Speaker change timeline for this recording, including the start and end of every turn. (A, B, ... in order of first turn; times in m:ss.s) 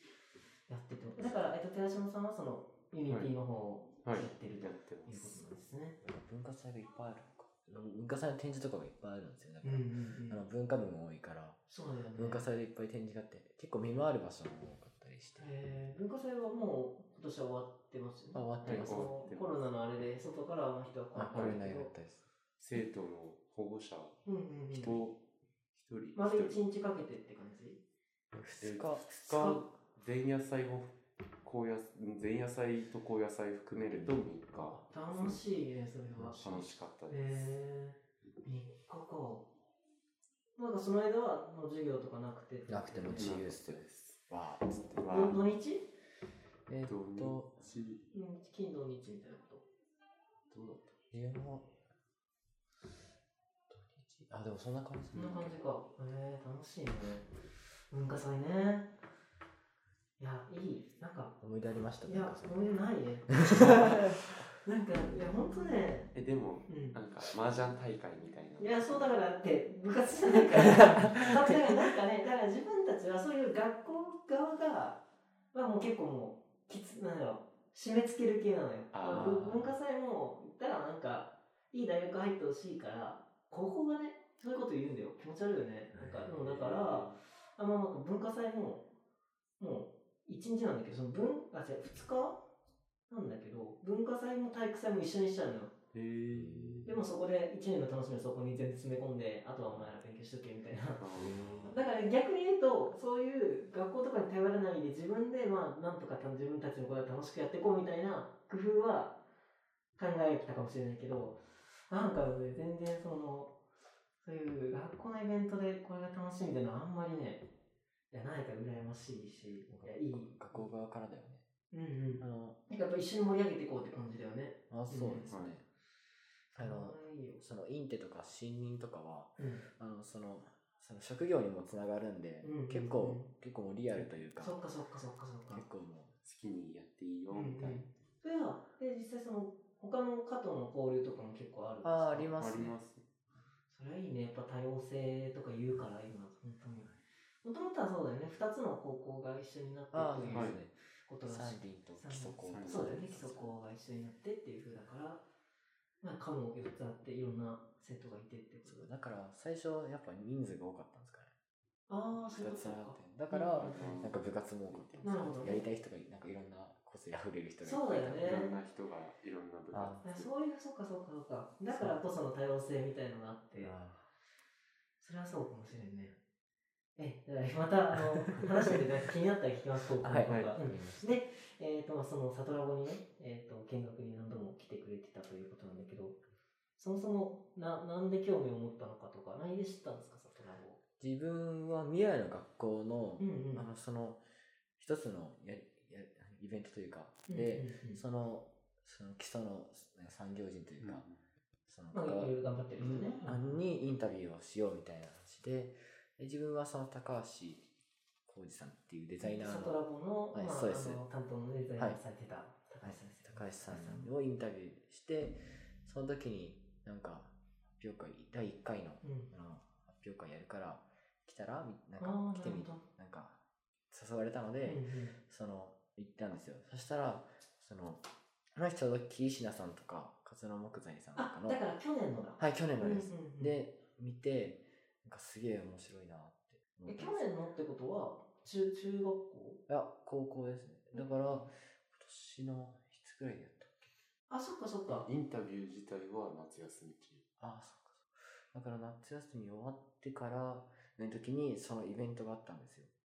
0:00.7-0:06.0 A
0:04.0-0:05.4 B
0:06.0-0:11.6 C
0:09.6-0:10.4 A
0:11.7-0:12.4 A
0:12.1-0:15.5 C
0:15.4-0:21.9 A
0:18.3-0:19.1 C
0:18.6-0:19.5 B
0:21.1-0:22.2 C
0:21.3-0:21.6 B
0:22.6-0:25.2 B
0:24.2-0:25.0 A
0:25.7-0:26.6 B
0:26.2-0:27.8 A
0:28.3-0:29.6 C
0:28.6-0:35.4 B
0:33.8-0:34.8 C
0:34.9-0:36.4 A
0:36.1-0:36.7 C
0:36.4-0:37.6 B
0:37.1-0:39.5 A
0:40.6-0:43.4 A
0:42.7-0:45.0 C
0:43.1-0:44.2 B
0:44.9-0:45.4 B
0:45.1-0:45.9 A
0:46.7-0:47.6 C
0:46.8-0:48.0 B
0:48.1-0:49.6 A
0:50.5-0:50.9 B
0:51.1-0:51.7 C
0:53.7-0:55.6 C
0:55.1-0:57.3 A
0:57.9-0:58.9 A
1:00.2-1:01.4 A
1:01.4-1:02.7 C
1:02.0-1:06.1 A
1:03.3-1:04.2 C
1:06.1-1:09.2 B
1:06.7-1:07.0 A
1:08.6-1:15.0 A
1:10.8-1:11.6 C
1:15.5-1:28.8 A
1:18.9-1:19.5 B
1:19.1-1:19.8 C
1:25.9-1:26.3 C
1:26.3-1:27.2 B
1:29.6-1:32.4 A
1:33.1-1:35.7 A
1:35.9-1:36.9 B
1:36.3-1:37.0 C
1:36.8-1:41.0 A
1:41.0-1:41.7 B
1:41.1-1:41.8 C
1:41.7-1:49.2 A
1:50.0-1:53.5 A
1:54.2-1:57.4 A
1:58.1-2:00.6 A
1:59.7-2:01.4 C
2:01.7-2:05.3 A
2:02.2-2:02.6 C
2:04.7-2:05.6 C
2:05.3-2:05.5 B
2:06.5-2:07.4 A
2:06.6-2:14.6 C
2:09.4-2:09.6 A
2:12.4-2:13.3 A
2:14.4-2:15.6 A
2:15.5-2:16.1 C
2:16.2-2:17.9 B
2:17.3-2:22.4 A
2:21.8-2:22.8 C
2:22.4-2:23.0 B
2:23.7-2:35.2 A
2:29.9-2:33.5 C
2:30.3-2:30.6 B
2:32.4-2:33.0 B
2:36.0-2:38.9 A
2:38.6-2:41.3 C
2:41.9-2:44.0 A
2:42.1-2:48.5 C
2:43.5-2:45.6 B
2:45.0-2:45.6 A
2:47.6-2:48.6 A
2:48.2-2:50.3 B
2:49.7-2:50.0 C
2:50.0-2:53.8 A
2:53.6-2:54.0 C
2:55.0-2:56.2 A
2:57.0-3:06.2 A
2:58.4-2:58.8 C
3:00.0-3:01.2 C
3:00.2-3:00.5 B
3:06.8-3:10.8 A
3:11.0-3:14.2 C
3:13.2-3:13.6 A
3:14.8-3:21.0 C
3:17.3-3:18.0 A
3:20.8-3:21.2 B
3:21.7-3:27.7 C
3:21.9-3:23.5 A
3:28.2-3:29.8 C
3:29.2-3:34.1 A
3:30.3-3:31.0 C
3:32.8-3:43.4 C
3:39.0-3:39.3 A
3:42.0-3:42.8 A
3:43.9-3:48.0 C
3:44.6-3:45.2 A
3:48.5-3:51.6 C
3:51.2-3:53.5 A
3:52.4-3:57.3 C
3:56.8-3:59.6 A
3:59.7-4:03.9 C
4:00.9-4:01.5 A
4:04.3-4:05.1 A
4:04.9-4:07.2 B
4:07.4-4:12.9 C